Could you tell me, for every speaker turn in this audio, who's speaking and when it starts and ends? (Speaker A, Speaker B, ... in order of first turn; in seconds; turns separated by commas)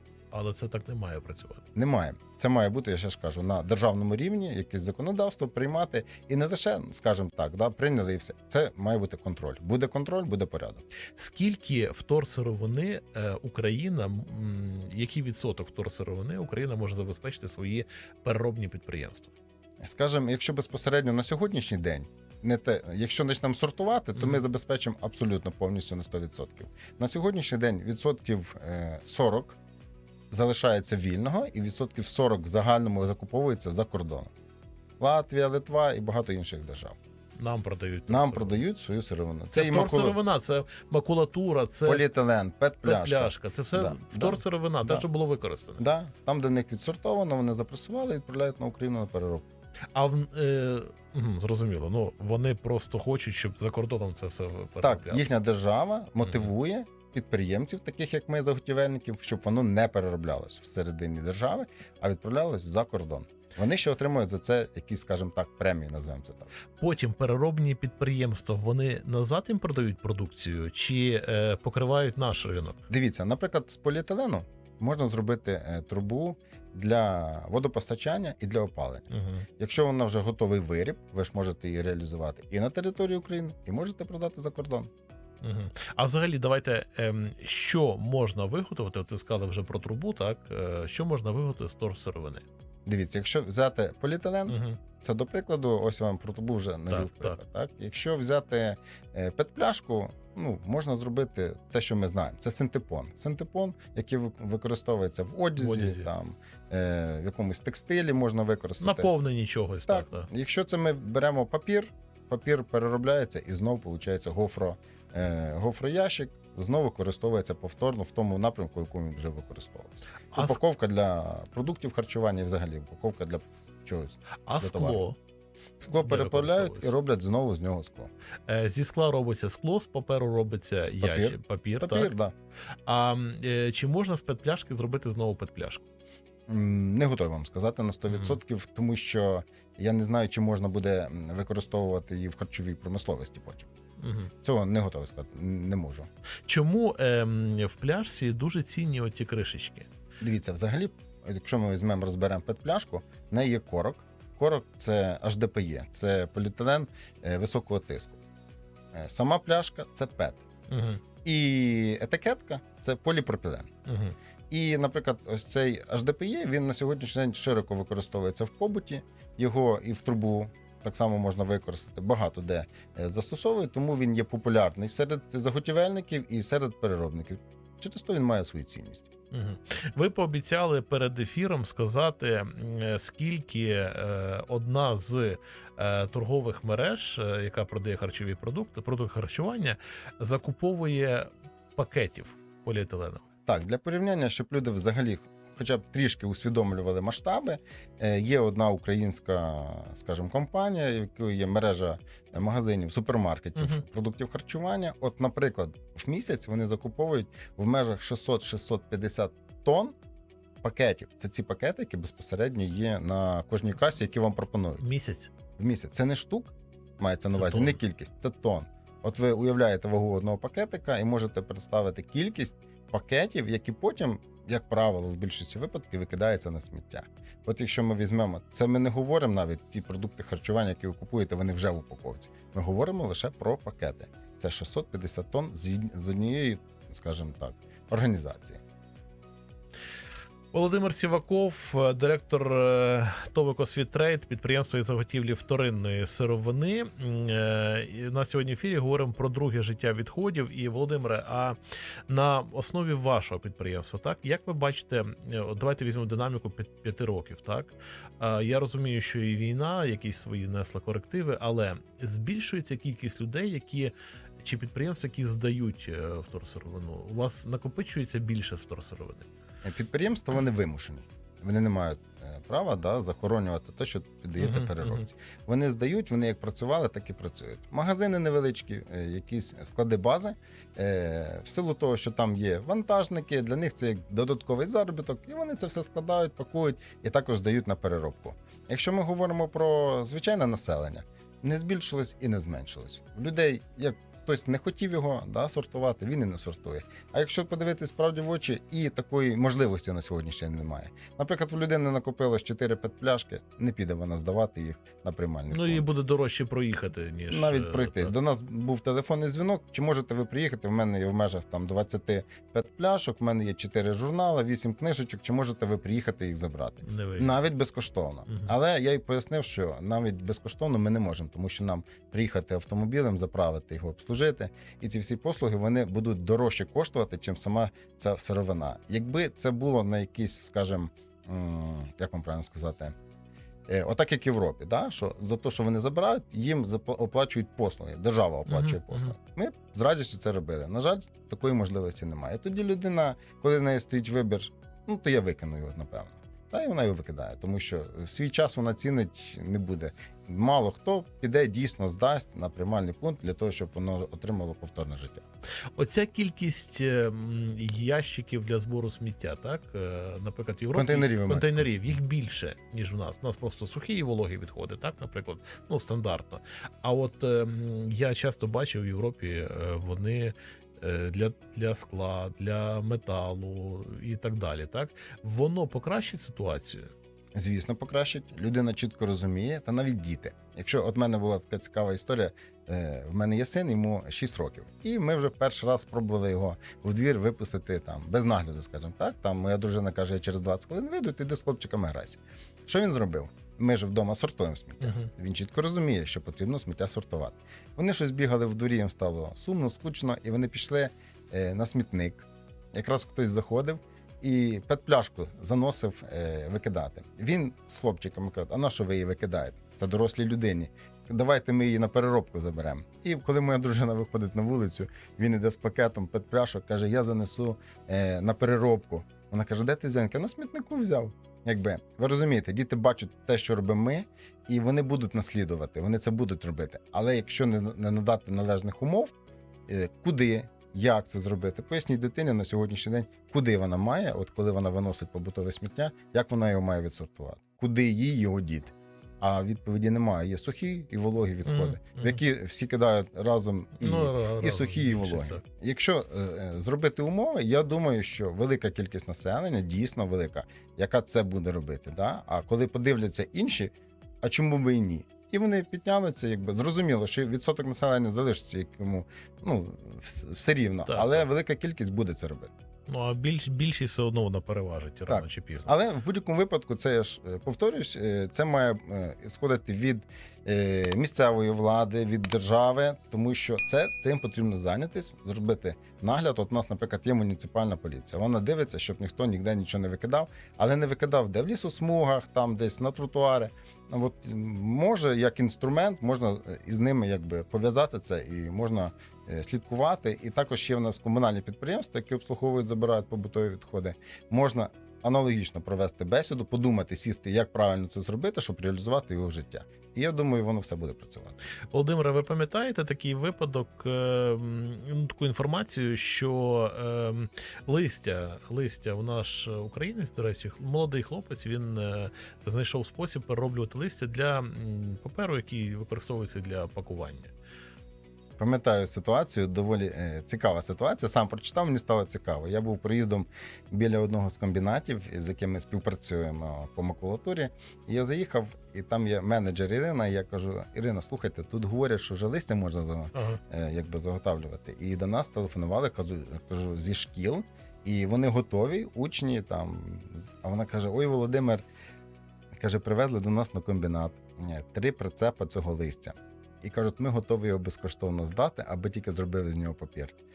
Speaker A: 0.3-1.7, Speaker B: 1.8-10.9, Speaker A: 11.2-19.3, Speaker B: 19.8-29.6, Speaker A: 24.2-24.4, Speaker B: 30.3-34.3, Speaker B: 35.0-37.0, Speaker A: 37.4-38.6, Speaker B: 38.1-40.2, Speaker A: 39.5-42.0, Speaker B: 41.9-45.0, Speaker A: 42.8-45.9, Speaker B: 45.8-49.4, Speaker A: 49.9-55.4, Speaker B: 54.8-66.5, Speaker A: 56.2-56.5, Speaker A: 66.8-72.9, Speaker B: 72.9-84.9, Speaker A: 79.1-79.5, Speaker A: 85.4-92.4, Speaker B: 92.9-109.1, Speaker A: 94.5-94.8, Speaker A: 96.9-97.4, Speaker A: 105.6-106.1, Speaker A: 108.8-110.3, Speaker B: 109.9-125.0, Speaker A: 120.3-120.6, Speaker A: 124.5-125.2, Speaker B: 125.8-128.1, Speaker A: 125.9-126.9, Speaker A: 128.5-132.1, Speaker B: 131.0-132.3, Speaker A: 132.9-135.8, Speaker B: 136.5-143.7, Speaker A: 138.1-138.4, Speaker A: 144.0-144.3, Speaker B: 144.4-146.1, Speaker A: 146.5-149.9, Speaker B: 150.2-158.2, Speaker B: 158.9-160.4, Speaker A: 160.7-161.0, Speaker B: 161.2-163.7, Speaker A: 163.9-164.2, Speaker B: 164.5-179.1, Speaker A: 179.3-193.2, Speaker B: 193.5-209.9, Speaker A: 203.6-203.8, Speaker B: 210.6-214.8, Speaker A: 214.8-215.3, Speaker B: 215.6-238.6, Speaker A: 217.3-217.8, Speaker A: 240.5-251.6, Speaker A: 252.1-269.3, Speaker B: 269.6-305.9, Speaker A: 274.4-275.0, Speaker A: 305.5-308.2, Speaker B: 307.3-332.9, Speaker A: 316.8-317.4, Speaker A: 318.3-318.5, Speaker B: 333.7-355.2, Speaker A: 338.5-339.1, Speaker A: 355.8-376.9, Speaker B: 360.7-362.0, Speaker B: 377.4-429.1, Speaker A: 394.8-395.1, Speaker B: 429.7-462.5, Speaker A: 441.4-442.2, Speaker A: 443.8-445.4, Speaker A: 460.9-461.3, Speaker A: 462.9-465.7, Speaker B: 465.1-501.4, Speaker A: 501.7-517.3, Speaker B: 518.4-541.6, Speaker A: 533.1-533.4, Speaker B: 542.5-550.1